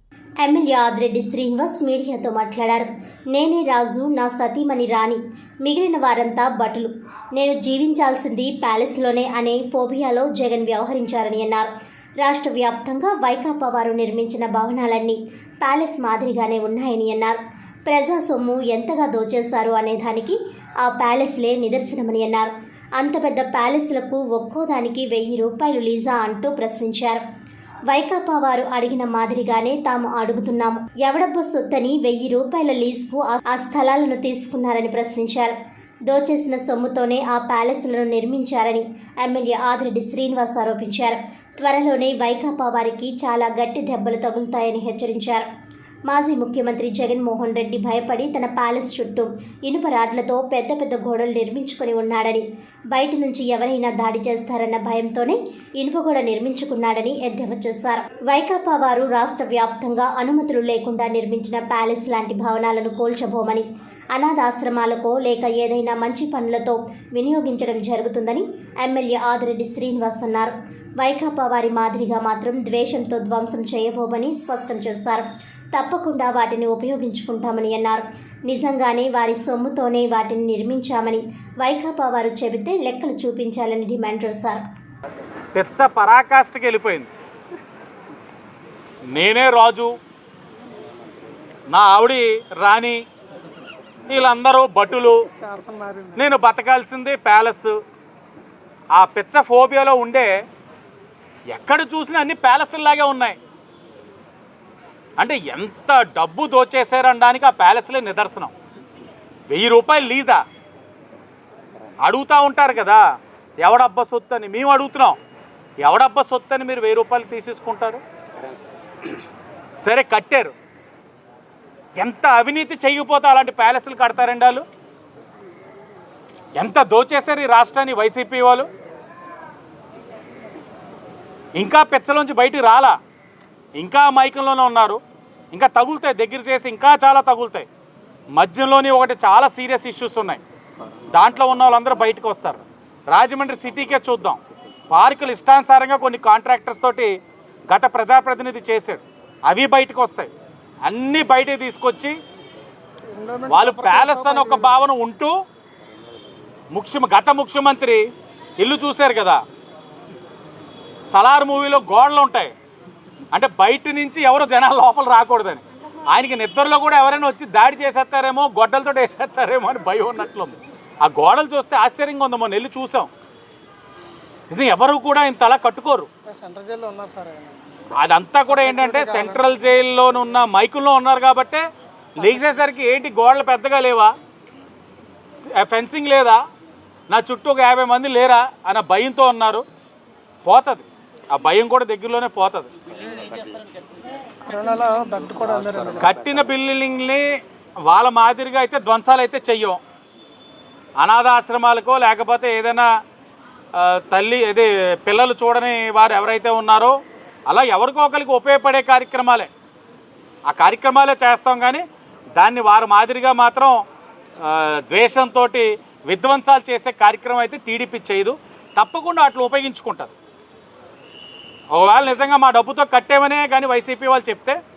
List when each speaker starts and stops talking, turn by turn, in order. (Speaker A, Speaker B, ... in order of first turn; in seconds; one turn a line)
Speaker A: 0.4-11.7
Speaker A: 12.2-27.2
Speaker A: 27.9-35.5
Speaker A: 36.1-45.5
Speaker A: 46.1-84.6
Speaker B: 85.5-87.1
Speaker B: 89.1-89.9
Speaker B: 91.7-93.0
Speaker B: 94.1-95.2
Speaker C: 95.4-96.3
Speaker B: 96.2-97.8
Speaker B: 98.9-100.3
Speaker B: 101.5-103.4
Speaker B: 105.2-108.5
Speaker B: 109.5-110.4
Speaker B: 112.0-113.0
Speaker B: 113.6-115.2
Speaker B: 115.8-118.0
Speaker B: 119.8-120.5
Speaker B: 122.0-124.6
Speaker B: 126.6-128.7
Speaker B: 131.6-132.9
Speaker B: 133.8-135.0
Speaker B: 135.5-137.7
Speaker B: 138.3-140.4
Speaker B: 141.1-147.1
Speaker B: 147.7-150.3
Speaker B: 150.8-152.2
Speaker C: 153.1-154.8
Speaker B: 153.5-155.3
Speaker B: 156.7-158.0
Speaker B: 158.6-159.4
Speaker B: 161.1-162.5
Speaker B: 163.3-173.1
Speaker B: 174.5-176.1
Speaker C: 176.3-177.6
Speaker B: 178.0-181.6
Speaker C: 178.5-179.4
Speaker B: 182.2-184.1
Speaker B: 185.5-186.4
Speaker B: 187.1-189.6
Speaker B: 190.4-192.7
Speaker C: 194.4-196.1
Speaker B: 196.0-197.2
Speaker B: 197.8-199.8
Speaker B: 201.0-202.9
Speaker B: 203.8-206.9
Speaker B: 207.5-209.5
Speaker B: 210.5-211.8
Speaker B: 212.3-213.8
Speaker B: 214.4-220.1
Speaker B: 221.7-224.6